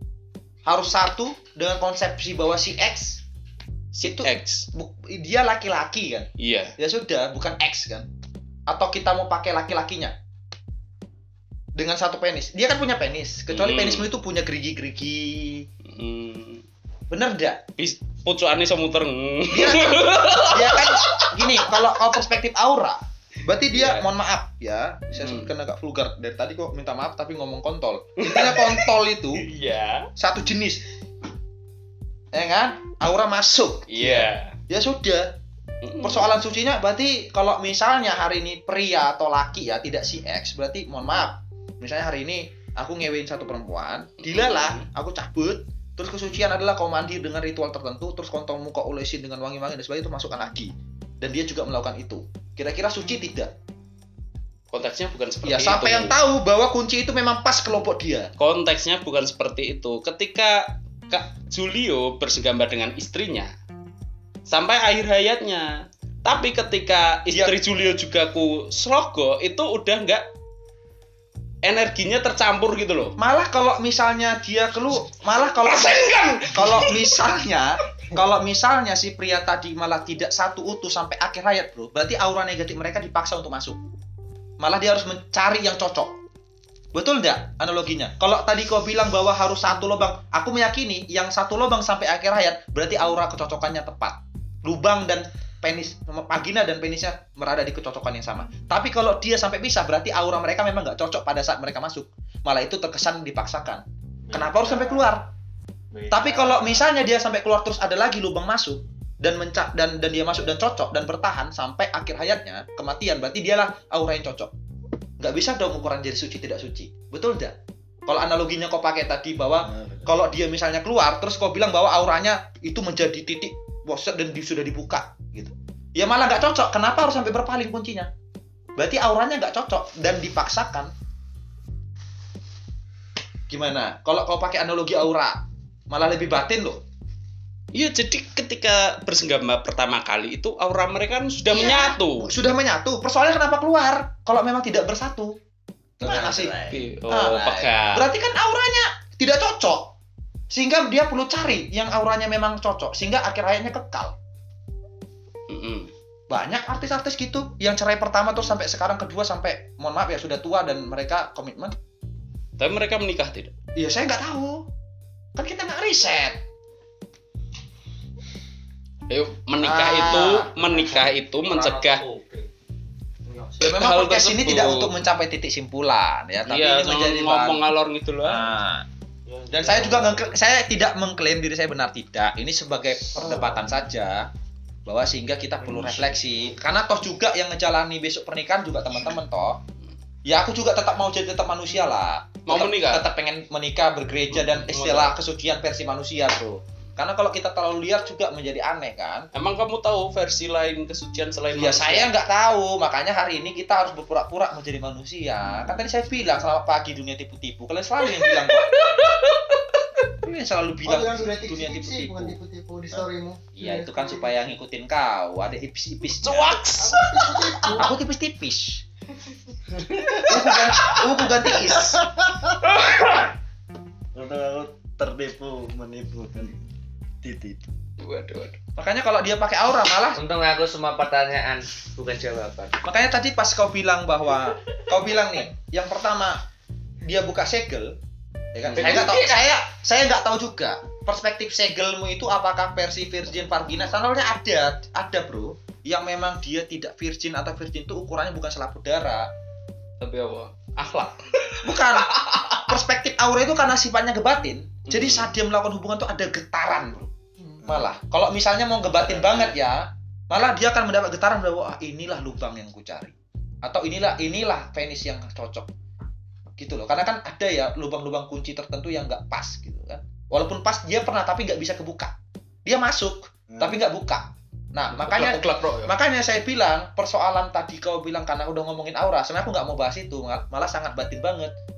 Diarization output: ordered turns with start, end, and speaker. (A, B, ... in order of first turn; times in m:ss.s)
0:00.6-0:03.2 A
0:03.9-0:04.7 B
0:04.0-0:08.1 A
0:06.4-0:06.7 B
0:08.7-0:10.1 A
0:11.8-0:15.6 A
0:13.5-0:14.1 B
0:15.8-0:16.6 B
0:17.1-0:17.6 A
0:17.8-0:21.8 B
0:19.5-0:29.4 A
0:23.7-0:24.1 B
0:25.2-0:25.5 B
0:28.2-0:28.9 B
0:29.4-0:30.1 B
0:30.2-0:30.8 A
0:32.3-0:35.2 A
0:33.9-0:34.6 B
0:35.8-0:36.3 B
0:36.0-0:53.5 A
0:44.2-0:44.8 B
0:54.7-0:56.1 B
0:55.4-0:58.3 A
0:58.4-1:03.5 B
1:04.5-1:10.2 B
1:07.3-1:07.6 A
1:11.6-1:13.1 B
1:13.2-1:23.8 A
1:15.6-1:17.2 B
1:24.6-1:26.1 A
1:26.9-1:45.3 A
1:44.3-1:45.1 C
1:45.9-1:46.8 C
1:46.1-1:54.5 A
1:55.2-1:57.6 A
1:58.1-2:08.1 A
1:59.6-2:00.1 D
2:08.8-2:10.9 A
2:13.5-2:15.4 A
2:15.9-2:16.8 A
2:17.7-2:22.3 B
2:21.5-2:25.4 A
2:26.0-2:26.6 A
2:26.0-2:26.8 C
2:26.7-2:28.0 B
2:27.1-2:29.9 A
2:30.5-2:34.1 A
2:35.5-2:35.9 B
2:36.3-2:41.7 A
2:42.6-2:43.5 B
2:43.8-2:44.7 A
2:45.4-2:46.4 A
2:49.1-2:52.0 B
2:49.6-2:50.5 A
2:50.2-2:52.5 C
2:53.3-2:53.6 C
2:53.6-2:55.0 B
2:53.6-2:57.6 A
2:56.4-2:58.6 B
2:58.2-2:58.8 A
2:59.3-3:00.3 C
2:59.5-3:04.3 A
3:04.8-3:09.6 A
3:05.6-3:06.2 D
3:10.2-3:19.3 A
3:12.5-3:13.0 B
3:14.3-3:15.1 B
3:19.3-3:22.1 B
3:21.6-3:28.7 A
3:28.0-3:29.6 B
3:30.2-3:32.3 A
3:30.8-3:34.5 E
3:33.6-3:36.6 A
3:36.2-3:37.9 B
3:36.8-3:37.9 E
3:37.7-3:38.8 A
3:39.7-3:40.6 D
3:40.3-3:42.0 A
3:40.3-3:41.0 B
3:41.6-3:42.6 D
3:42.6-3:43.3 B
3:44.1-3:46.6 D
3:47.2-3:47.7 D
3:48.0-3:48.6 B
3:48.8-3:50.2 A
3:50.1-3:52.8 C
3:52.8-3:56.4 A
3:57.0-3:57.9 A
3:58.5-4:09.3 A
3:58.6-3:59.0 B
3:58.8-3:59.5 C
4:10.0-4:12.6 B
4:11.6-4:17.1 A
4:14.9-4:15.3 B
4:17.6-4:25.7 A
4:19.0-4:19.5 B
4:26.6-4:32.1 A
4:32.6-4:41.5 A
4:33.5-4:33.8 D
4:34.9-4:35.9 B